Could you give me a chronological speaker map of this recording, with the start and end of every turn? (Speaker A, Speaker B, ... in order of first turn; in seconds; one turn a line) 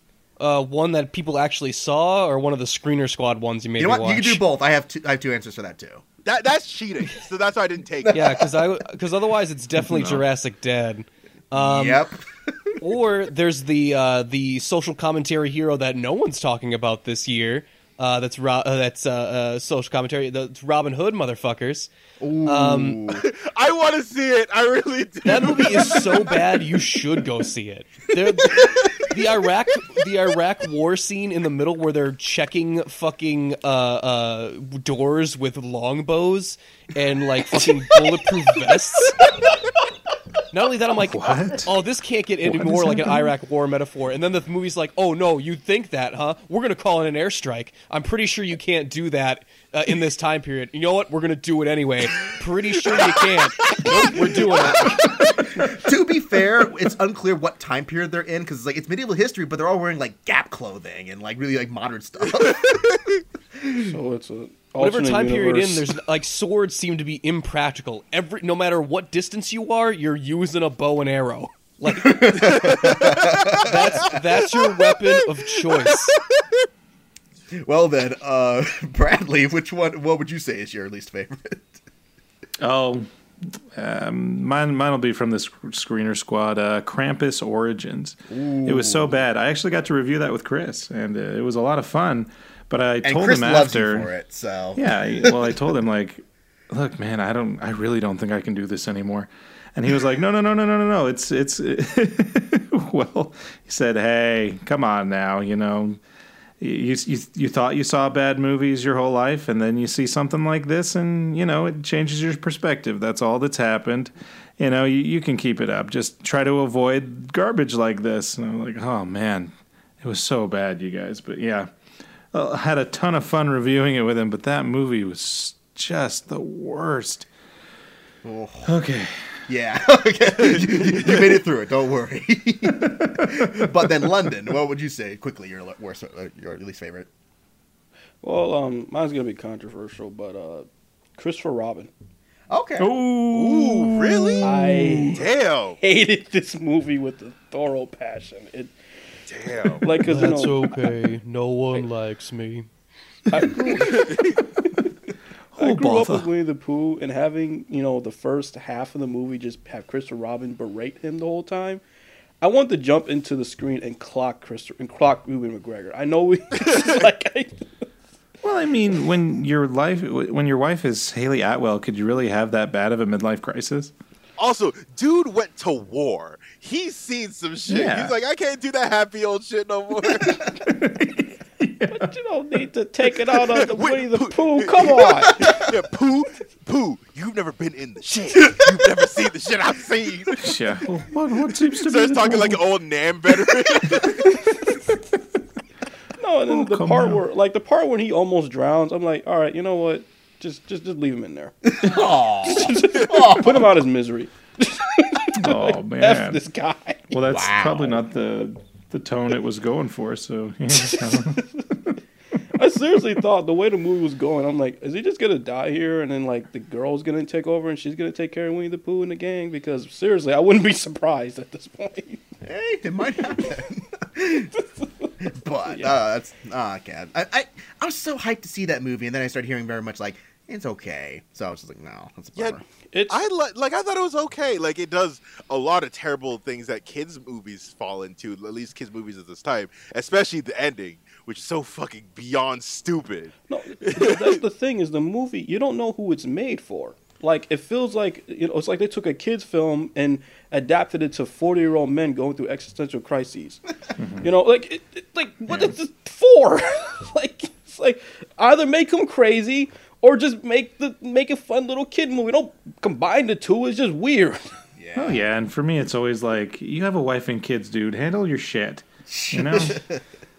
Speaker A: 0.4-4.4
Speaker B: 3.8-6.0
Speaker C: 6.2-8.4
Speaker B: 8.0-8.6
Speaker A: 8.1-12.0
Speaker D: 9.8-10.2
Speaker B: 11.5-12.7
Speaker A: 12.8-21.9
Speaker B: 22.2-23.2
Speaker A: 22.4-23.0
Speaker C: 23.1-27.0
Speaker A: 25.2-39.3
Speaker C: 28.5-28.9
Speaker A: 40.5-55.1
Speaker D: 41.1-41.7
Speaker D: 42.4-43.3
Speaker C: 53.6-54.3
Speaker B: 54.5-63.0
Speaker C: 62.4-63.1
Speaker B: 63.6-63.9
Speaker E: 63.8-65.8
Speaker A: 64.8-72.9
Speaker B: 71.8-74.2
Speaker C: 72.4-76.6
Speaker A: 73.6-76.2
Speaker B: 77.5-81.8
Speaker D: 82.6-94.1
Speaker B: 88.3-89.2
Speaker B: 93.0-95.5
Speaker D: 94.7-106.0
Speaker D: 106.6-121.7
Speaker D: 122.3-127.3
Speaker B: 128.2-128.8
Speaker D: 128.6-129.4
Speaker B: 129.5-137.1
Speaker C: 130.4-131.3
Speaker D: 132.8-133.5
Speaker E: 138.2-141.9
Speaker B: 142.5-142.9
Speaker D: 142.8-145.2
Speaker C: 143.3-144.4
Speaker E: 144.4-145.2
Speaker C: 145.1-145.8
Speaker E: 145.8-148.7
Speaker C: 149.3-149.8
Speaker E: 149.8-150.6
Speaker A: 150.0-152.7
Speaker E: 153.3-154.1
Speaker C: 153.9-154.4
Speaker D: 155.5-156.3
Speaker E: 155.6-161.8
Speaker E: 162.4-167.7
Speaker D: 168.4-173.9
Speaker C: 174.4-180.4
Speaker D: 177.7-178.1
Speaker D: 180.3-182.1
Speaker E: 181.9-185.3
Speaker C: 183.5-190.5
Speaker B: 188.4-188.7
Speaker D: 190.4-192.6
Speaker C: 191.8-194.2
Speaker E: 194.2-194.6
Speaker E: 196.2-201.5
Speaker D: 196.5-197.2
Speaker B: 201.6-203.6
Speaker E: 202.4-207.1
Speaker D: 205.4-206.4
Speaker D: 207.1-212.0
Speaker B: 207.3-208.0
Speaker E: 210.8-211.6
Speaker E: 212.6-222.2
Speaker B: 222.4-224.5
Speaker E: 224.5-226.0
Speaker B: 225.2-232.6
Speaker C: 232.3-244.4
Speaker E: 232.9-233.2
Speaker E: 243.5-253.6
Speaker D: 254.0-254.3
Speaker E: 254.2-264.5
Speaker B: 264.8-265.2
Speaker D: 264.9-269.8
Speaker B: 269.1-270.0